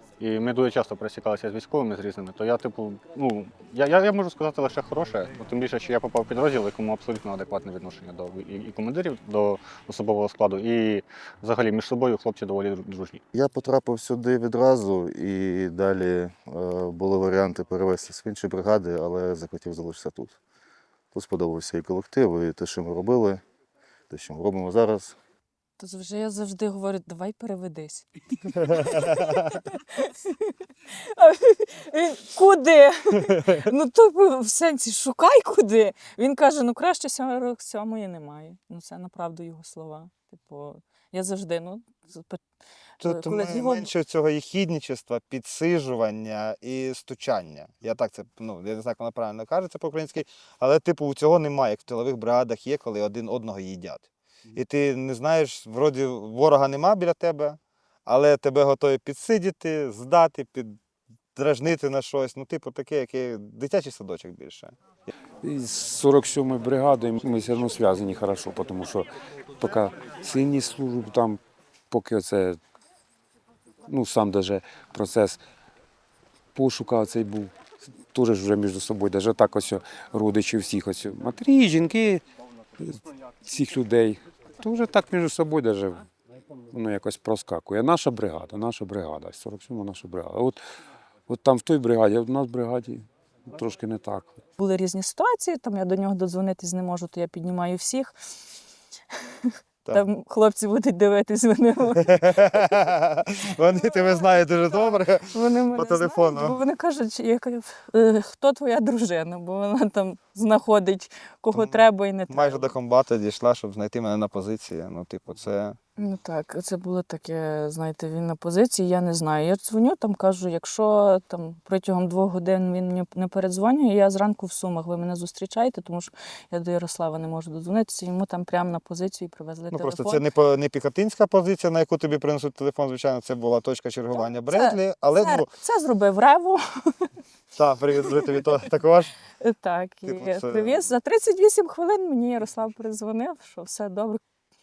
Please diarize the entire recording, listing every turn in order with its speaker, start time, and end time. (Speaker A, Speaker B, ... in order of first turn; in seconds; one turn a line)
Speaker A: 0.2-13.2
Speaker B: 13.3-20.4
Speaker B: 21.1-23.4
Speaker B: 24.1-25.2
Speaker C: 25.8-42.4
Speaker C: 43.0-44.0
Speaker D: 43.4-54.0
Speaker D: 54.6-60.8
Speaker D: 61.4-64.7
Speaker E: 65.4-69.1
Speaker E: 69.6-72.6
Speaker E: 73.9-75.4
Speaker E: 76.5-77.6
Speaker E: 78.1-82.2
Speaker E: 82.8-86.1
Speaker E: 86.7-90.6
Speaker E: 91.3-94.4
Speaker C: 94.6-98.1
Speaker C: 99.9-102.6
Speaker D: 103.7-105.0
Speaker C: 104.7-112.8
Speaker D: 105.9-106.5
Speaker D: 112.3-115.8
Speaker C: 116.0-130.3
Speaker D: 129.9-135.0
Speaker C: 134.1-137.1
Speaker D: 137.6-137.9
Speaker C: 138.0-138.7
Speaker C: 139.4-144.2